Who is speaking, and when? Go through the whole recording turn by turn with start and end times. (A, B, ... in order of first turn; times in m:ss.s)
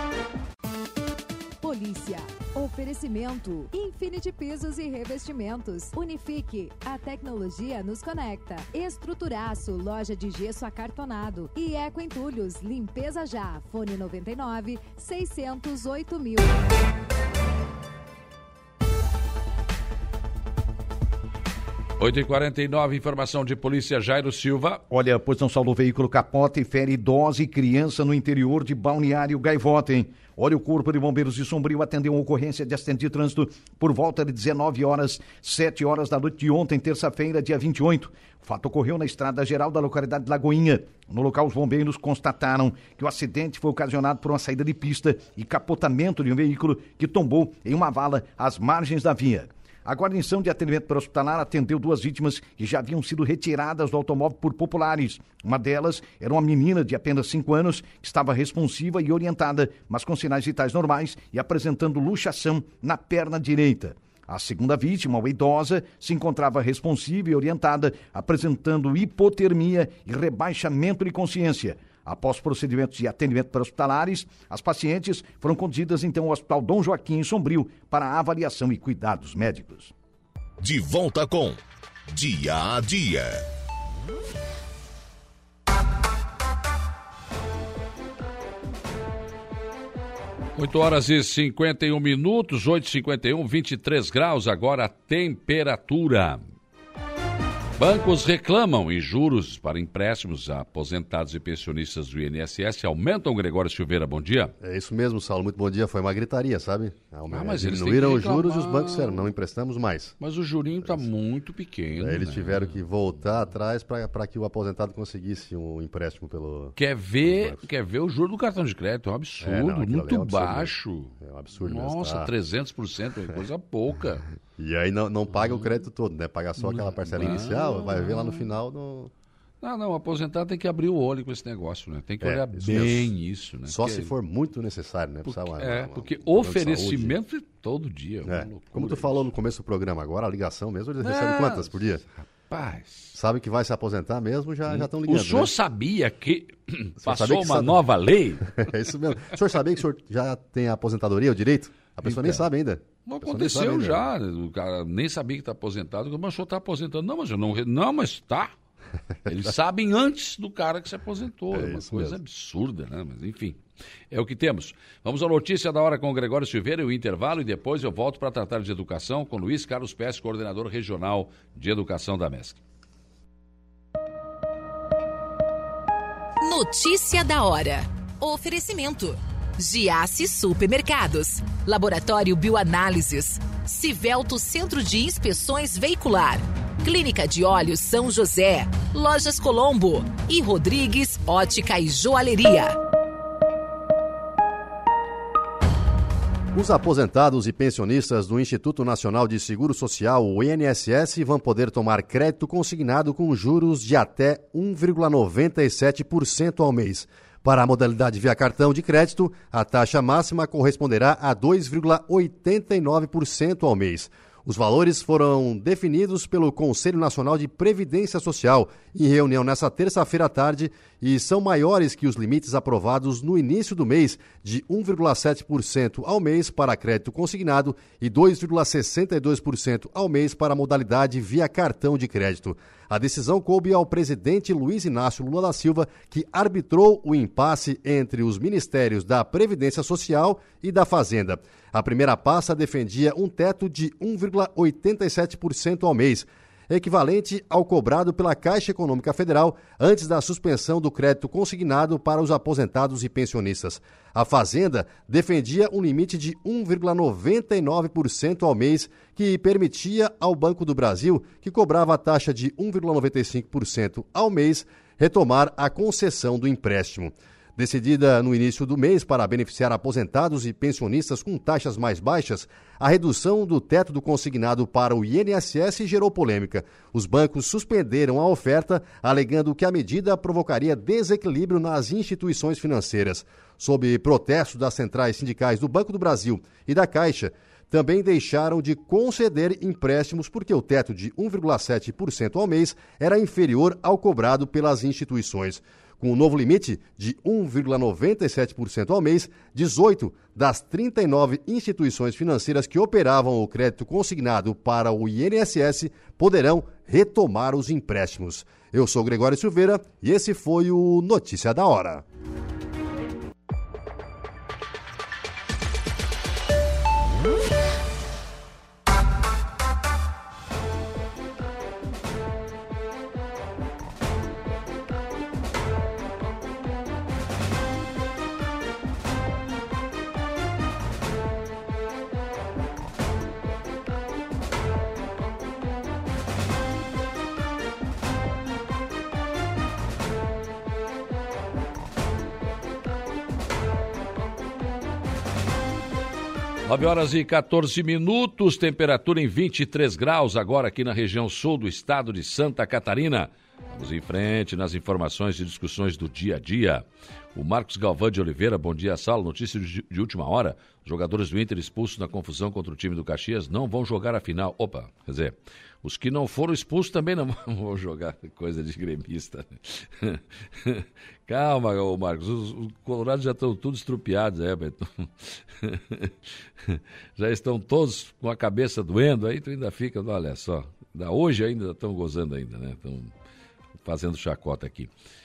0:01.6-0:16.6 A
0:22.0-0:24.8 B
0:24.9-1:19.9 C
1:20.6-1:21.6 D
1:22.1-1:23.4 D
1:30.6-1:36.4 B
1:37.8-1:44.5 B
1:44.6-1:50.1 E
1:47.3-1:49.3 B
1:50.2-1:52.8 B
1:52.0-1:57.6 E
1:56.8-2:04.3 B
1:59.4-2:02.3 E
2:04.6-2:09.1 E
2:06.6-2:08.5 B
2:09.6-2:14.1 B
2:12.2-2:17.2 E
2:15.2-2:19.3 B
2:18.2-2:22.0 E
2:21.0-2:21.9 B
2:22.5-2:23.2 B
2:23.1-2:25.5 E
2:24.7-2:28.5 B
2:27.0-2:27.8 E
2:28.5-2:34.1 E
2:32.0-2:32.4 B
2:33.0-2:38.5 B
2:39.3-2:43.6 B
2:41.5-2:42.2 E
2:44.1-2:52.6 B
2:56.4-3:12.8 F
3:16.5-5:12.0 E
5:46.7-6:23.1 B
6:23.8-6:24.9 B